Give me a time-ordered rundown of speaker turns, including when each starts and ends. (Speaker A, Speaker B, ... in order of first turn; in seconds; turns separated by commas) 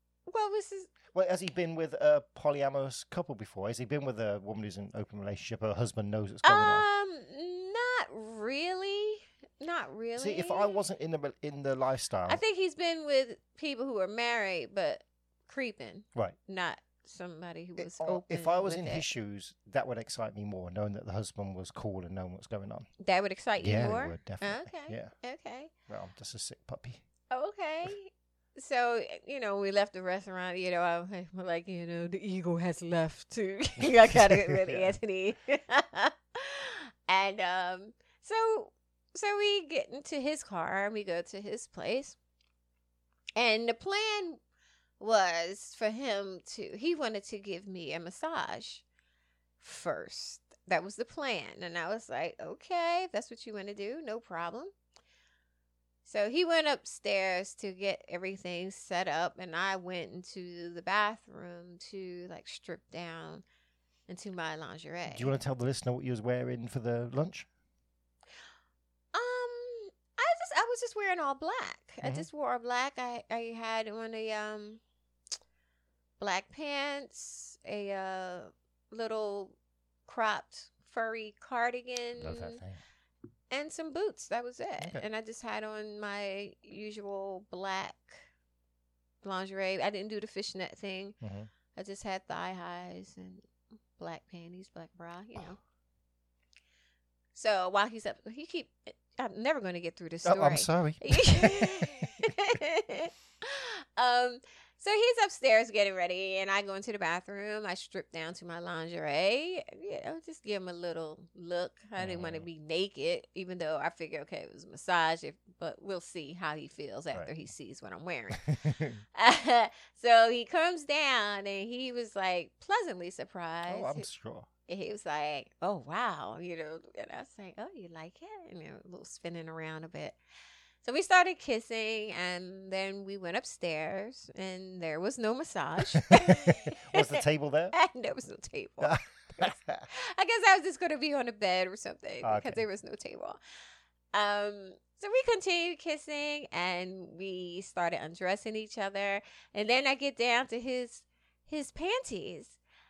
Speaker A: 0.3-0.9, Speaker B: 1.1-6.9, Speaker A: 6.4-10.7, Speaker B: 10.2-12.4, Speaker A: 12.3-19.1, Speaker B: 17.8-22.9, Speaker A: 23.0-25.7, Speaker B: 23.6-25.1, Speaker B: 25.9-27.0, Speaker A: 27.3-42.2, Speaker B: 34.1-35.0, Speaker A: 43.4-44.4, Speaker A: 45.0-48.8, Speaker A: 49.6-54.7, Speaker A: 56.0-63.4, Speaker A: 64.1-65.4, Speaker B: 65.1-67.5, Speaker A: 69.1-74.8, Speaker A: 76.2-82.6, Speaker B: 82.2-82.8, Speaker A: 83.5-88.2, Speaker A: 89.2-91.2, Speaker B: 91.2-91.5, Speaker A: 91.8-93.5, Speaker A: 94.0-95.6, Speaker A: 97.3-118.5, Speaker B: 100.2-102.2, Speaker B: 112.0-112.5, Speaker B: 118.5-119.0, Speaker A: 119.2-124.1, Speaker B: 123.7-124.5, Speaker A: 124.7-130.2, Speaker A: 130.8-143.4, Speaker B: 135.9-137.8, Speaker B: 138.8-139.8, Speaker B: 142.2-142.6, Speaker A: 144.1-152.6